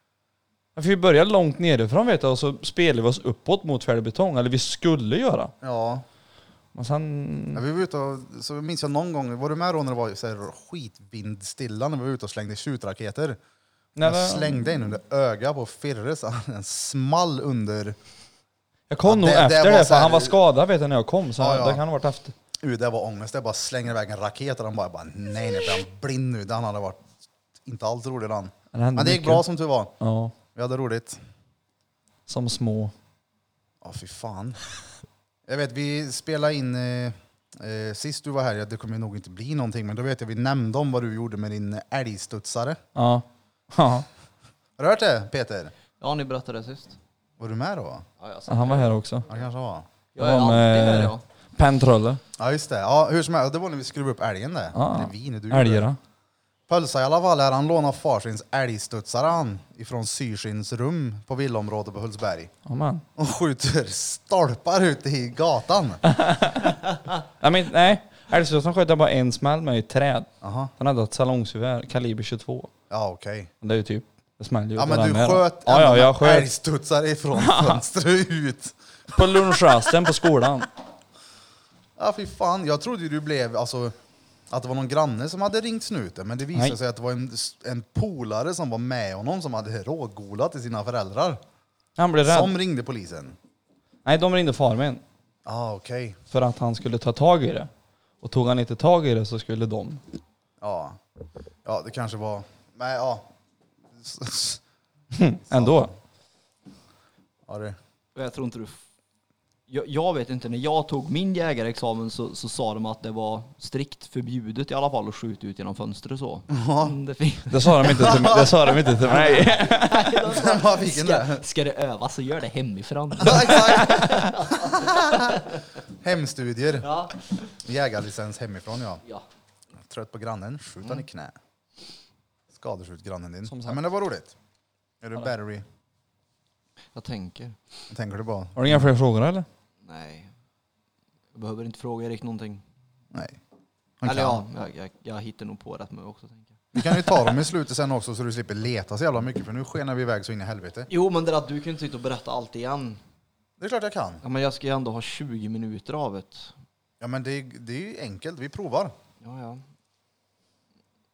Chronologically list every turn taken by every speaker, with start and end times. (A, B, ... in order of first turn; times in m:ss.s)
0:00.8-0:05.5 A
0:05.6-0:06.0 B
0:06.7-0:07.6 A
0:07.6-0:13.4 B
0:14.0-0:14.6 A
0:14.0-0:18.0 B
0:18.9-0:22.3 A
0:19.0-0:20.4 B
0:21.4-0:21.8 B
0:22.6-0:27.0 B
0:27.6-0:29.9 B
0:28.7-0:29.4 A
0:30.0-0:30.4 A
0:30.5-0:31.2 B
0:32.3-0:32.9 A
0:33.8-0:34.6 B
0:35.5-0:42.8 B
0:43.0-0:44.1 A
0:44.8-0:45.7 B
0:46.0-0:47.0 C
0:47.4-0:48.0 B
0:48.2-0:49.0 C
0:48.5-0:49.3 A
0:49.3-0:49.9 B
0:50.2-0:51.2 C
0:50.2-0:52.2 A
0:52.4-0:55.9 B
0:54.8-0:56.0 A
0:56.7-1:02.5 B
1:02.7-1:03.0 A
1:03.2-1:06.0 B
1:06.1-1:12.7 A
1:10.4-1:10.7 B
1:12.9-1:13.5 B
1:13.6-1:16.5 A
1:14.8-1:19.9 B
1:17.4-1:17.8 A
1:19.1-1:20.7 A
1:22.0-1:24.0 B
1:24.5-1:31.4 B
1:32.0-1:32.5 A
1:32.2-1:33.4 B
1:34.0-1:35.0 A
1:35.4-1:36.2 B
1:36.3-1:37.7 A
1:38.2-1:40.0 A
1:40.6-1:41.0 B
1:41.6-1:43.3 B
1:44.0-1:44.6 B
1:45.1-1:45.9 A
1:45.5-1:45.9 B
1:47.5-1:47.8 B
1:48.2-1:48.8 C
1:49.7-1:58.1 C
1:56.5-1:57.0 B
1:57.5-2:00.2 A
1:57.9-1:58.5 B
1:59.0-2:05.6 C
2:00.3-2:01.4 B
2:03.2-2:05.4 B
2:06.0-2:06.9 B
2:06.8-2:07.4 C
2:07.6-2:09.0 B
2:09.9-2:11.4 B
2:12.5-2:14.4 B
2:13.5-2:13.8 A
2:15.0-2:15.7 B
2:16.9-2:17.6 C
2:17.9-2:18.9 B
2:18.6-2:19.5 A
2:19.8-2:20.3 C
2:21.3-2:22.6 C
2:24.0-2:24.4 B
2:24.0-2:27.0 C
2:26.7-2:30.9 B
2:30.9-2:33.0 C
2:33.6-2:34.2 B
2:34.2-2:36.5 C
2:37.0-2:38.9 B
2:39.2-2:39.6 C